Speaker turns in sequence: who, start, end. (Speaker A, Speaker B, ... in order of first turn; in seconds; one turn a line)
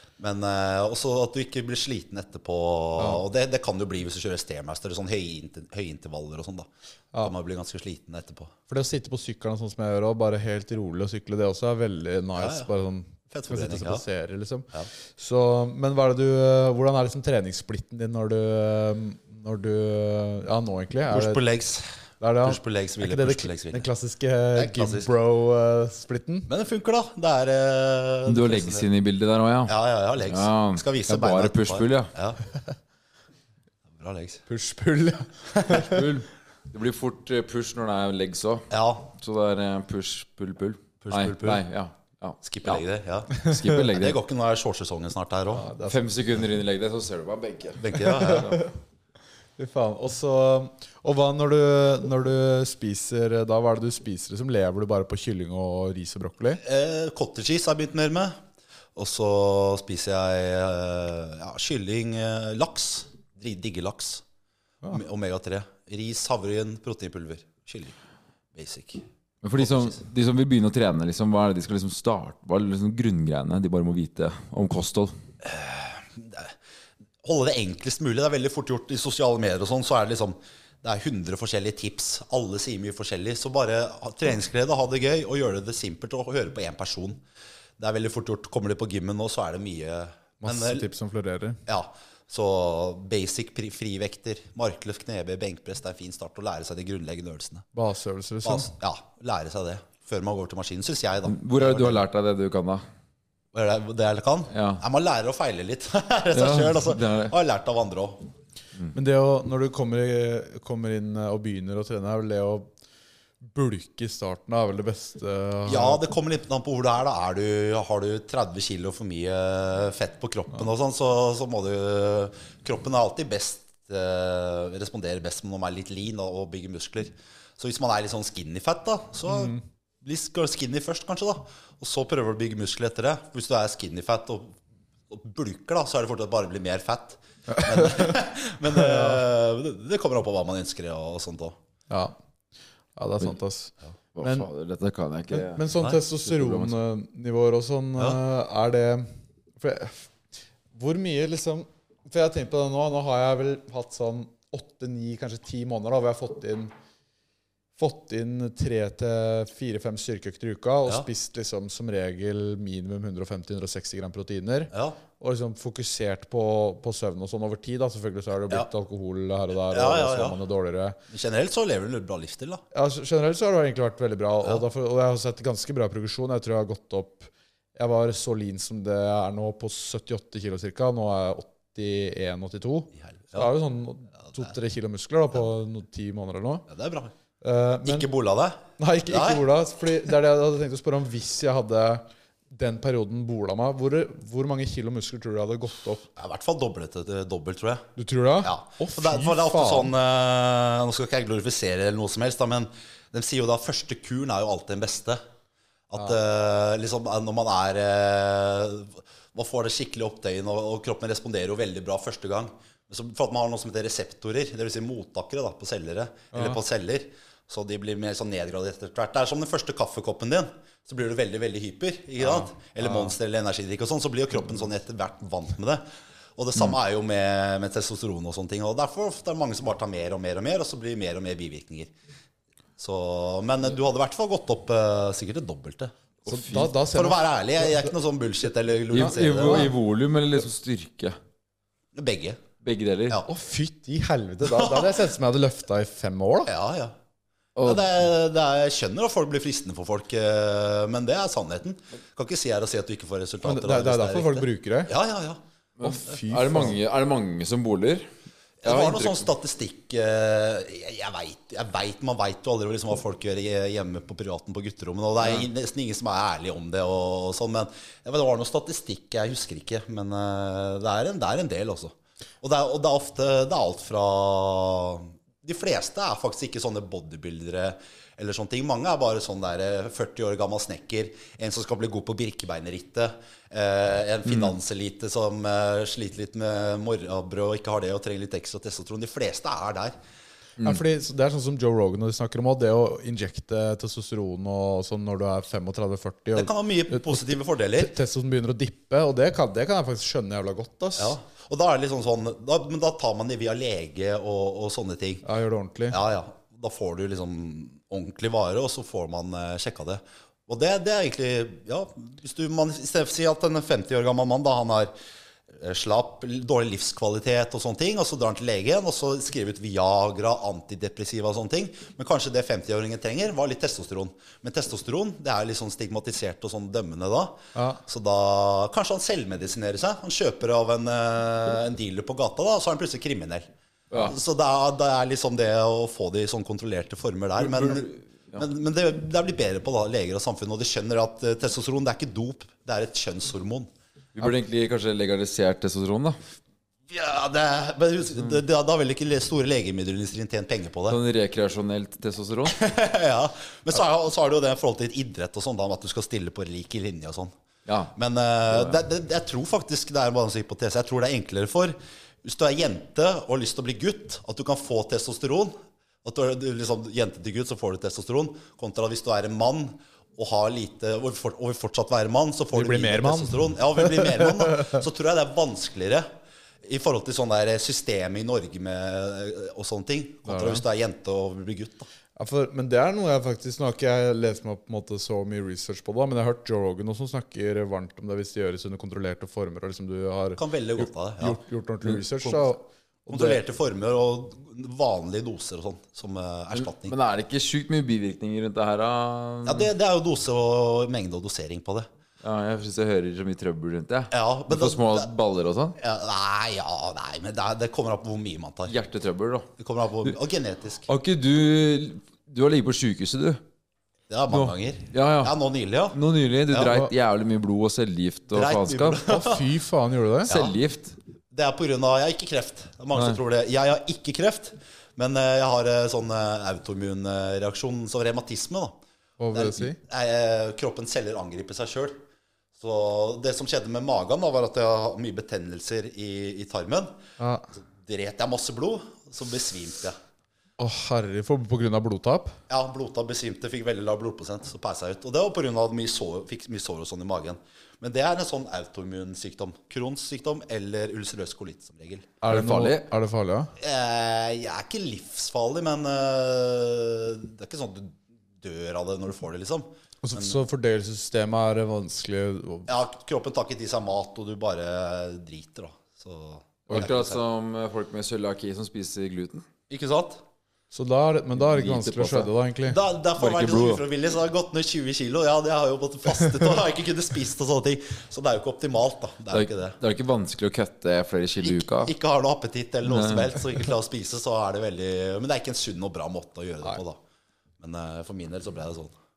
Speaker A: 0.2-6.7
Speaker B: 3.0-3.2
Speaker A: 7.2-8.5
Speaker B: 8.7-21.4
Speaker A: 12.4-12.7
Speaker A: 13.3-14.0
Speaker A: 21.1-21.9
Speaker B: 22.2-26.5
Speaker A: 22.4-23.9
Speaker A: 24.6-25.1
Speaker A: 26.5-28.9
Speaker C: 28.3-29.7
Speaker A: 29.7-32.4
Speaker C: 30.3-32.1
Speaker A: 34.0-34.4
Speaker B: 34.5-36.1
Speaker C: 35.6-42.8
Speaker A: 38.7-39.1
Speaker A: 41.0-41.6
Speaker A: 42.4-45.7
Speaker C: 43.4-44.2
Speaker B: 45.5-46.0
Speaker C: 45.8-48.6
Speaker A: 47.8-48.6
Speaker B: 48.0-48.7
Speaker B: 49.6-56.6
Speaker A: 56.6-58.4
Speaker A: 59.0-64.2
Speaker A: 64.9-68.0
Speaker A: 68.5-69.0
Speaker C: 69.4-75.1
Speaker A: 69.6-70.0
Speaker A: 75.4-76.5
Speaker A: 77.2-87.2
Speaker A: 87.8-90.9
Speaker B: 90.4-91.6
Speaker A: 91.7-97.7
Speaker B: 97.7-98.7
Speaker A: 98.4-102.0
Speaker C: 101.3-102.8
Speaker A: 103.5-108.3
Speaker C: 104.5-104.8
Speaker C: 106.3-107.3
Speaker B: 108.9-112.7
Speaker B: 113.4-116.0
Speaker A: 115.7-134.6
Speaker B: 129.3-129.6
Speaker A: 135.1-141.6
Speaker B: 137.5-138.2
Speaker B: 138.7-139.2
Speaker B: 141.9-142.2
Speaker B: 143.0-144.5
Speaker C: 144.2-146.8
Speaker B: 145.3-150.1
Speaker B: 150.8-156.7
Speaker B: 157.8-171.0
Speaker A: 164.7-165.0
Speaker A: 169.7-170.4
Speaker A: 171.1-172.6
Speaker B: 172.7-186.7
Speaker A: 183.0-183.5
Speaker A: 186.7-187.1
Speaker B: 187.4-188.1
Speaker A: 187.8-189.4
Speaker B: 188.8-196.1
Speaker A: 196.2-197.9
Speaker B: 198.0-199.9
Speaker A: 198.4-205.2
Speaker A: 205.9-225.8
Speaker B: 216.3-216.6
Speaker B: 222.3-223.1
Speaker A: 226.4-231.9
Speaker A: 232.8-235.9
Speaker C: 236.3-236.7
Speaker B: 236.3-237.9
Speaker A: 236.9-239.7
Speaker C: 238.9-241.2
Speaker B: 238.9-239.7
Speaker A: 241.9-242.4
Speaker C: 242.6-243.2
Speaker B: 243.3-246.5
Speaker A: 244.4-245.0
Speaker A: 246.5-246.9
Speaker C: 247.6-247.9
Speaker A: 247.6-255.4
Speaker B: 253.4-254.9
Speaker C: 255.8-258.1
Speaker B: 255.8-256.8
Speaker A: 258.6-289.9
Speaker C: 258.6-259.3
Speaker C: 284.3-284.5
Speaker B: 290.6-301.2
Speaker A: 296.4-297.9
Speaker A: 301.0-305.2
Speaker B: 305.2-306.0
Speaker A: 305.9-314.9
Speaker A: 315.5-343.7
Speaker B: 327.6-327.8
Speaker C: 333.9-334.2
Speaker C: 337.4-338.4
Speaker C: 344.1-346.2
Speaker A: 346.9-351.0
Speaker C: 350.9-352.6
Speaker A: 352.5-357.3
Speaker C: 357.7-357.9
Speaker A: 357.9-376.1
Speaker C: 358.5-358.8
Speaker B: 372.5-374.8
Speaker A: 376.6-381.9
Speaker B: 380.3-380.6
Speaker B: 382.2-393.4
Speaker A: 390.4-391.4
Speaker A: 393.1-396.9
Speaker C: 396.5-399.7
Speaker A: 399.4-401.9
Speaker C: 402.2-405.8
Speaker A: 404.1-405.1
Speaker A: 405.8-408.7
Speaker C: 408.7-409.5
Speaker A: 409.6-410.9
Speaker C: 410.9-413.4
Speaker A: 414.1-416.0
Speaker C: 414.3-415.4
Speaker C: 415.9-419.0
Speaker A: 418.3-419.5
Speaker B: 419.1-420.3
Speaker A: 420.3-420.6
Speaker C: 420.3-421.0
Speaker A: 421.3-428.7
Speaker C: 422.9-423.2
Speaker B: 429.2-429.8
Speaker A: 429.3-432.0
Speaker A: 432.6-436.9
Speaker B: 437.2-437.5
Speaker A: 437.8-440.0
Speaker B: 440.6-442.4
Speaker A: 442.5-452.1
Speaker B: 452.2-453.5
Speaker C: 452.3-452.9
Speaker A: 453.6-460.4
Speaker B: 460.0-462.7
Speaker A: 462.7-467.2
Speaker C: 466.7-469.4
Speaker A: 469.7-470.2
Speaker B: 470.7-472.8
Speaker C: 471.4-472.3
Speaker A: 472.7-479.8
Speaker C: 473.2-473.8
Speaker C: 479.3-481.9
Speaker A: 481.4-487.0
Speaker C: 482.9-483.4
Speaker A: 487.6-488.9